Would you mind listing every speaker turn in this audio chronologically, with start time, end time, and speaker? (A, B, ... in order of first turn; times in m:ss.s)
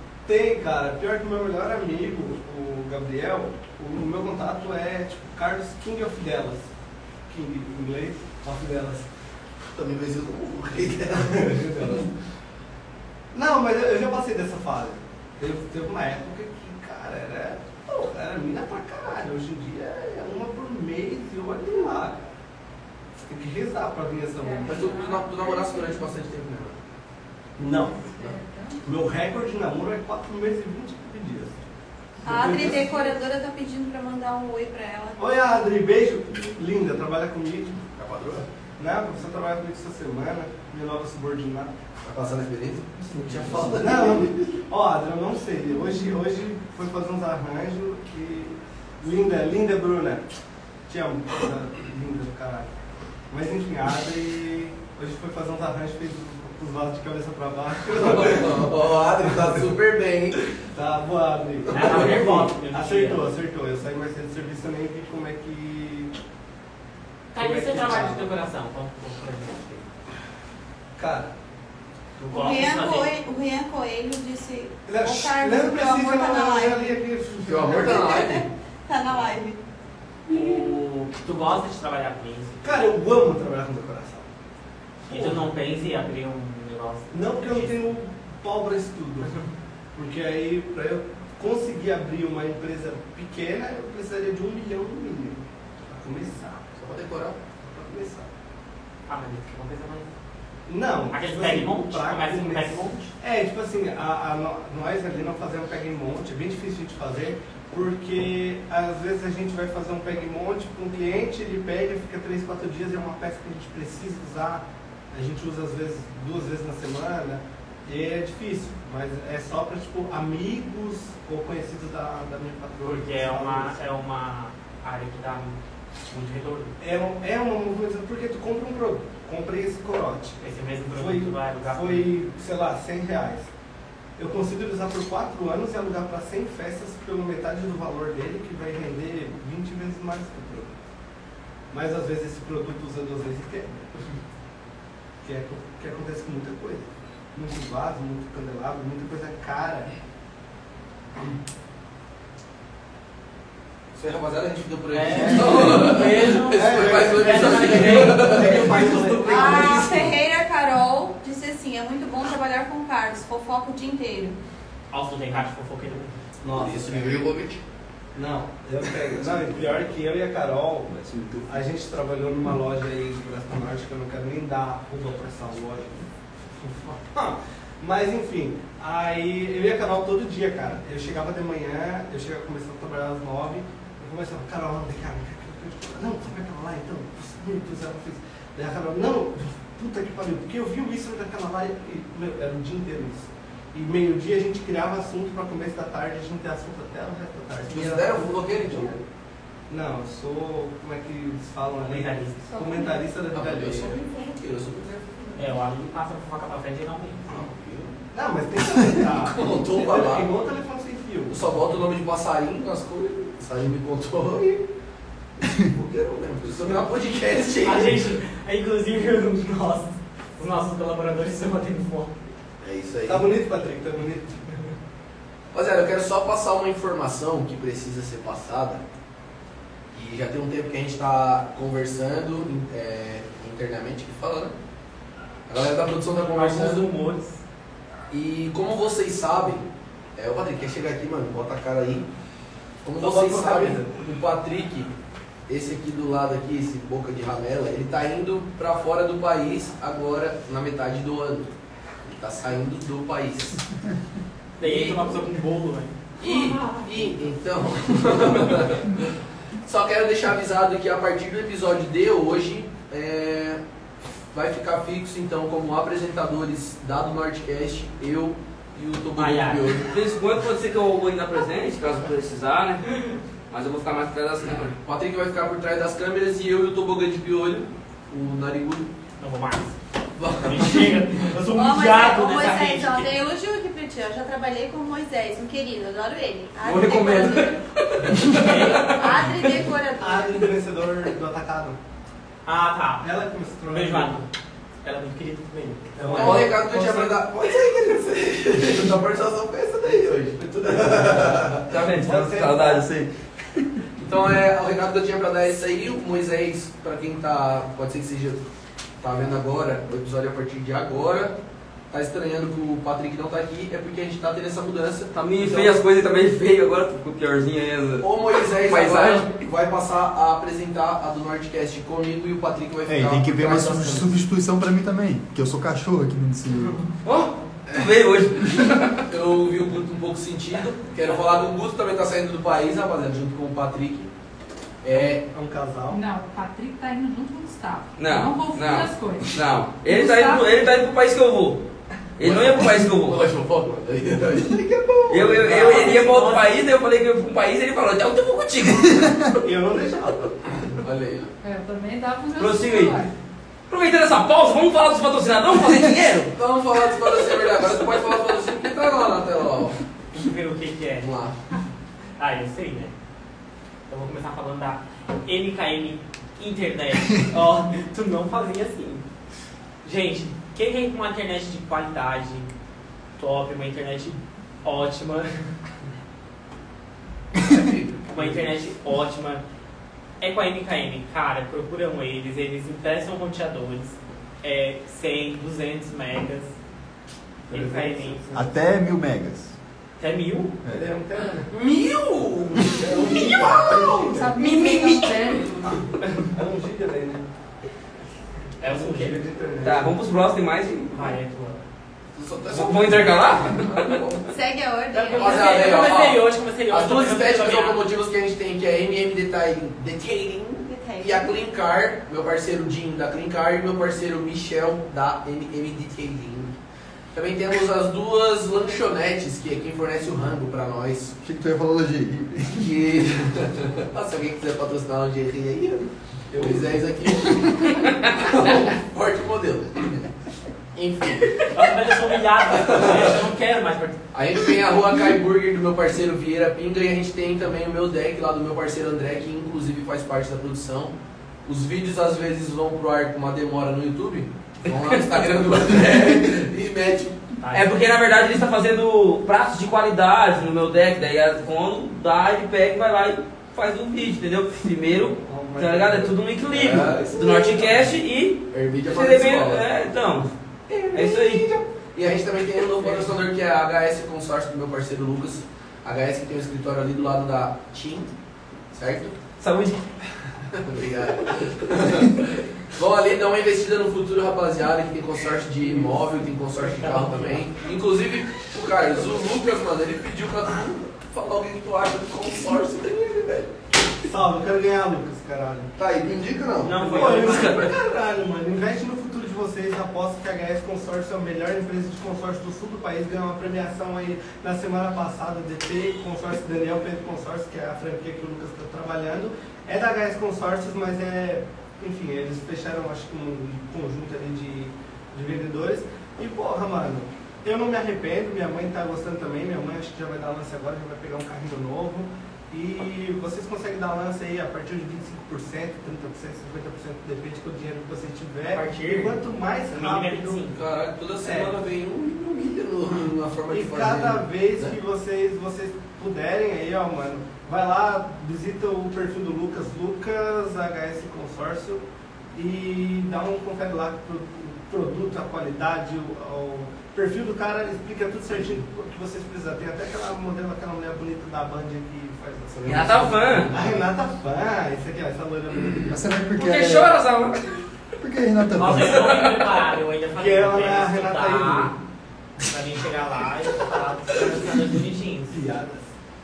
0:00.2-0:06.7 A
0:07.3-0:09.1 A
0:09.7-0:12.1 B
0:11.1-0:12.1 A
0:13.3-0:22.3 A
0:23.2-0:25.0 A
0:24.4-0:26.1 C
0:24.6-0:26.8 B
0:27.6-0:28.0 A
0:27.6-0:28.9 C
0:28.8-0:31.6 A
0:32.2-0:33.2 A
0:32.2-0:35.2 D
0:35.2-0:37.8 A
0:38.0-0:38.4 B
0:38.8-0:41.7 A
0:42.0-0:44.5 B
0:43.3-0:50.2 A
0:50.9-0:52.7 A
0:53.3-0:59.7 A
0:57.9-1:00.4 B
1:00.7-1:06.1 A
1:01.7-1:02.2 B
1:01.7-1:03.3 E
1:07.3-1:09.8 E
1:07.3-1:08.3 A
1:11.0-1:11.3 A
1:12.2-1:13.1 E
1:12.3-1:17.0 D
1:14.9-1:18.1 A
1:17.4-1:18.5 B
1:17.7-1:19.6 D
1:20.3-1:23.0 E
1:22.6-1:24.3 A
1:25.0-1:25.5 A
1:25.1-1:27.8 E
1:27.1-1:29.3 A
1:29.9-1:36.7 A
1:36.8-1:37.4 B
1:37.6-1:38.3 A
1:39.1-1:40.1 E
1:40.6-2:03.8 A
1:41.1-1:43.1 E
2:02.8-2:05.6 E
2:06.1-2:06.8 E
2:06.8-2:10.4 A
2:10.4-2:12.1 E
2:10.9-2:13.5 A
2:14.2-2:20.8 A
2:21.7-2:23.9 A
2:25.2-2:29.9 A
2:33.9-2:40.1 B
2:34.9-2:39.7 E
2:35.1-2:40.1 A
2:39.2-2:44.4 D
2:44.9-2:46.2 E
2:46.4-2:47.3 A
2:46.5-2:47.6 B
2:48.1-2:56.0 A
2:51.0-2:51.5 B
2:56.6-3:19.0 A
3:17.6-3:19.0 B
3:19.7-3:24.0 A
3:21.8-3:22.4 E
3:22.6-3:23.0 C
3:23.3-3:25.5 B
3:25.4-3:27.4 E
3:27.3-3:28.0 B
3:28.1-3:31.4 A
3:28.9-3:30.3 B
3:31.3-3:34.6 B
3:35.4-3:38.0 B
3:37.6-3:42.2 E
3:42.6-3:43.3 B
3:43.0-3:44.6 A
3:45.5-3:48.8 B
3:49.9-3:54.6 B
3:55.5-3:56.9 B
3:56.3-3:57.4 E
3:58.1-4:02.1 B
4:02.8-4:04.9 B
4:03.0-4:04.0 A
4:05.5-4:13.6 B
4:14.6-4:15.9 E
4:14.6-4:15.2 B
4:16.2-4:23.6 B
4:24.3-4:29.9 B
4:29.2-4:29.8 E
4:29.8-4:34.7 F
4:34.7-4:38.9 B
4:39.2-4:39.8 E
4:40.2-4:40.9 B
4:40.4-4:43.1 E
4:41.5-4:47.6 D
4:46.6-4:49.2 F
4:48.3-4:49.0 E
4:48.4-4:50.5 D
4:50.0-4:51.8 A
4:52.4-4:53.1 E
4:53.0-4:54.2 A
4:53.7-4:54.3 E
4:54.8-4:56.9 E
4:56.0-4:56.8 A
4:56.1-5:01.8 B
5:00.3-5:02.8 A
5:01.7-5:02.9 F
5:02.8-5:03.1 G
5:04.0-5:08.4 B
5:09.0-5:11.4 B
5:11.9-5:15.8 B
5:15.1-5:19.3 F
5:18.0-5:24.1 B
5:22.8-5:26.8 G
5:27.0-5:29.0 F
5:29.0-5:34.1 B
5:34.8-5:35.2 B
5:34.9-5:36.0 A
5:35.9-5:40.5 C
5:38.0-5:41.6 F
5:42.2-5:43.2 F
5:42.2-5:45.9 B
5:45.1-5:49.3 F
5:45.3-5:45.9 A
5:45.4-5:46.6 E
5:49.4-5:50.3 A
5:50.7-5:51.3 B
5:51.4-5:53.1 C
5:52.4-5:53.1 F
5:53.7-5:56.3 F
5:56.3-5:59.8 B
6:00.1-6:01.1 E
6:01.0-6:01.4 B
6:02.2-6:02.9 E
6:03.9-6:09.0 E
6:09.8-6:12.5 E
6:13.2-6:15.4 E
6:17.5-6:18.0 B
6:18.1-6:19.4 E
6:20.2-6:26.5 E
6:27.5-6:28.4 A
6:27.5-6:28.5 E
6:28.3-6:29.5 G
6:30.0-6:30.5 E
6:30.7-6:31.5 A
6:31.5-6:33.5 F
6:32.6-6:34.5 A
6:32.7-6:34.2 B
6:33.6-6:35.5 C
6:34.4-6:35.3 F
6:35.7-6:37.2 A
6:38.6-6:39.2 E
6:38.6-6:39.9 A
6:39.6-6:41.2 F
6:40.9-6:41.6 E
6:42.1-6:44.3 B
6:42.5-6:44.1 F
6:44.3-6:45.7 D
6:44.9-6:47.8 E
6:45.1-6:56.5 B
6:50.6-6:51.3 D
6:57.1-7:01.1 B
7:01.2-7:02.7 G
7:02.5-7:10.1 B
7:06.3-7:06.8 A
7:10.7-7:11.6 B
7:11.5-7:14.0 E
7:12.5-7:13.2 B
7:14.1-7:27.2 B
7:27.4-7:27.7 E
7:27.5-7:40.3 F
7:35.2-7:36.1 A
7:36.5-7:37.9 B
7:38.5-7:39.7 B
7:40.7-7:48.1 B
7:40.9-7:41.5 F
7:48.7-7:49.2 B
7:49.4-7:49.8 F
7:50.5-8:03.5 B
7:56.6-7:57.4 E
8:04.0-8:05.7 A
8:05.8-8:07.6 B
8:06.6-8:07.7 E
8:06.8-8:40.4 A
8:07.0-8:07.7 F
8:38.5-8:39.2 E
8:39.7-8:40.6 E
8:40.5-8:44.7 B
8:41.2-8:41.5 A
8:43.5-9:06.0 A
9:02.6-9:03.5 F
9:05.8-9:07.0 G
9:06.3-9:07.6 F
9:08.0-9:09.1 G
9:08.5-9:11.7 E
9:08.9-9:09.4 F
9:10.2-9:11.8 A
9:12.4-9:15.4 E
9:15.3-9:15.9 A